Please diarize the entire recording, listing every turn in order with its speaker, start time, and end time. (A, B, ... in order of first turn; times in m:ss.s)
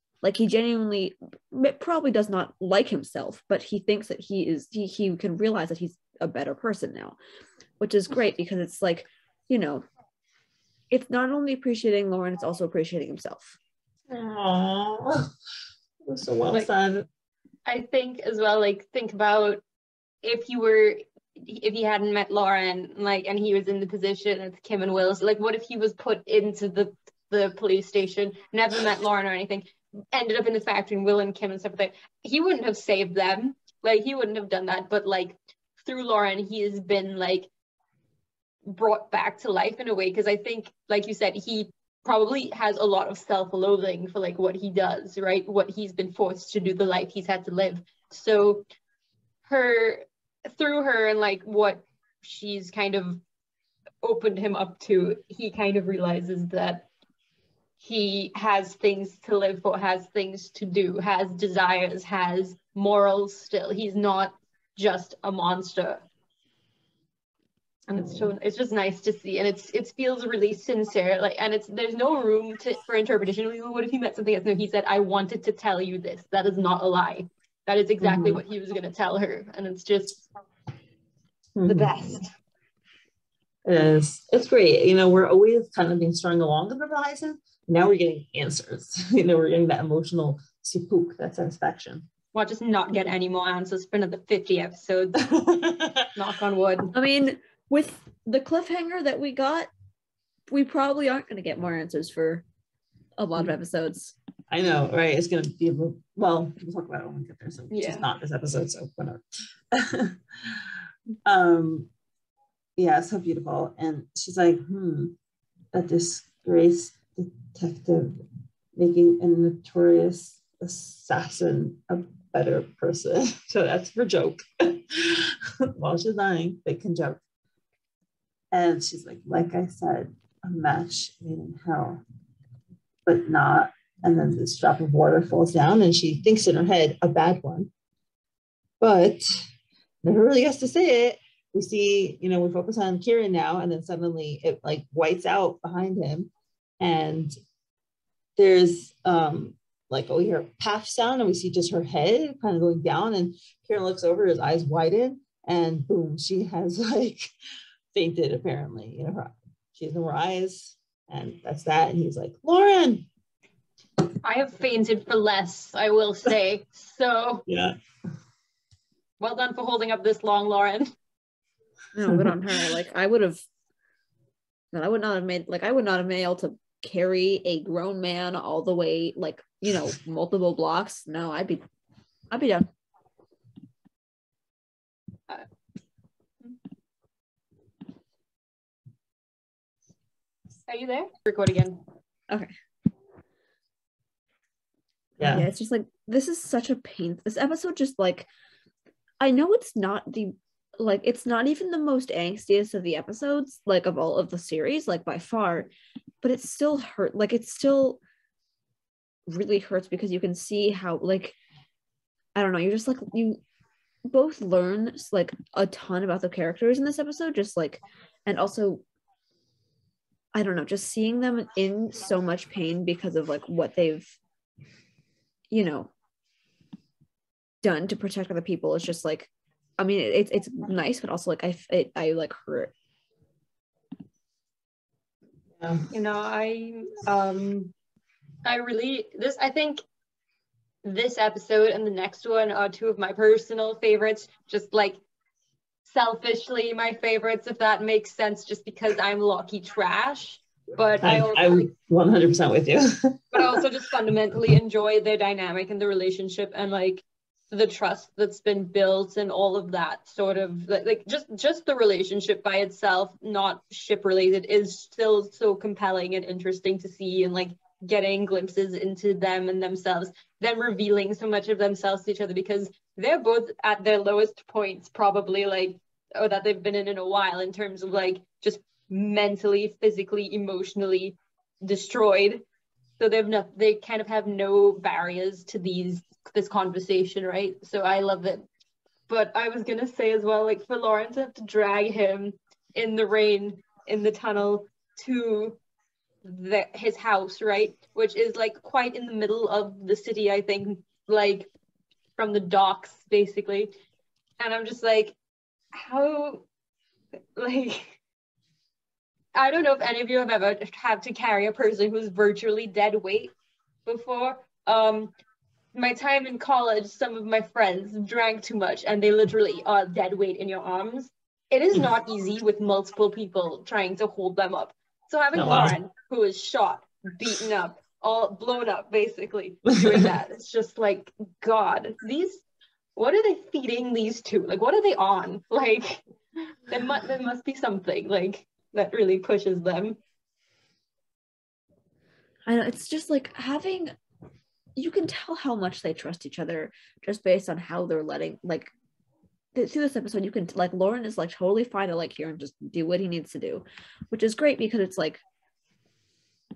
0:00.2-0:07.2 A
0:07.8-0:09.8 A
0:10.9-0:13.6 A
0:14.1-0:15.3 B
0:16.0-0:17.0 B
0:17.6-0:19.6 C
0:20.2-0:37.5 C
0:38.6-0:48.6 C
0:49.4-0:53.2 C
0:54.0-0:56.9 C
0:57.8-1:06.0 C
1:07.9-1:20.2 C
1:07.9-1:08.3 B
1:18.0-1:18.4 B
1:21.6-1:22.2 B
1:21.7-1:22.3 C
1:23.6-1:32.1 B
1:32.3-1:35.3 C
1:35.2-1:36.1 B
1:36.2-1:36.9 C
1:36.9-1:39.7 A
1:40.5-1:42.4 A
1:43.2-1:44.1 A
1:44.5-1:50.6 B
1:47.7-1:48.0 C
1:51.2-1:51.9 B
1:52.8-1:55.2 B
1:55.7-1:58.2 B
1:58.7-2:07.2 B
2:08.5-2:12.0 B
2:13.0-2:17.7 B
2:18.8-2:19.4 B
2:20.0-2:27.3 B
2:28.4-2:37.3 B
2:37.9-2:43.1 B
2:44.2-2:47.4 C
2:47.5-2:47.8 B
2:49.2-2:50.9 C
2:51.9-2:53.4 A
2:52.0-2:52.3 B
2:54.7-3:01.6 A
3:02.3-3:02.7 A
3:10.7-3:11.8 C
3:15.2-3:15.5 B
3:15.2-3:18.3 A
3:19.2-3:25.7 A
3:26.2-3:28.0 A
3:29.3-3:31.4 A
3:32.3-3:33.4 A
3:34.1-3:38.8 A
3:40.3-3:44.2 A
3:45.5-3:45.9 A
3:47.6-3:52.7 A
3:55.6-3:55.9 B
3:55.9-3:57.7 C
3:58.4-3:59.8 C
4:00.8-4:05.0 C
4:05.8-4:11.7 C
4:11.0-4:13.6 B
4:13.3-4:42.4 C
4:43.0-4:48.4 C
4:49.1-4:55.6 C
4:56.2-5:01.5 C
5:02.2-5:03.7 C
5:04.4-5:05.1 C
5:05.7-5:06.4 C
5:07.4-5:08.0 C
5:09.3-5:13.3 C
5:13.8-5:15.1 C
5:15.7-5:32.4 C
5:25.3-5:25.7 B
5:33.0-5:36.0 C
5:36.7-5:40.0 C
5:42.5-5:43.9 A
5:44.8-5:48.7 A
5:49.5-5:55.2 A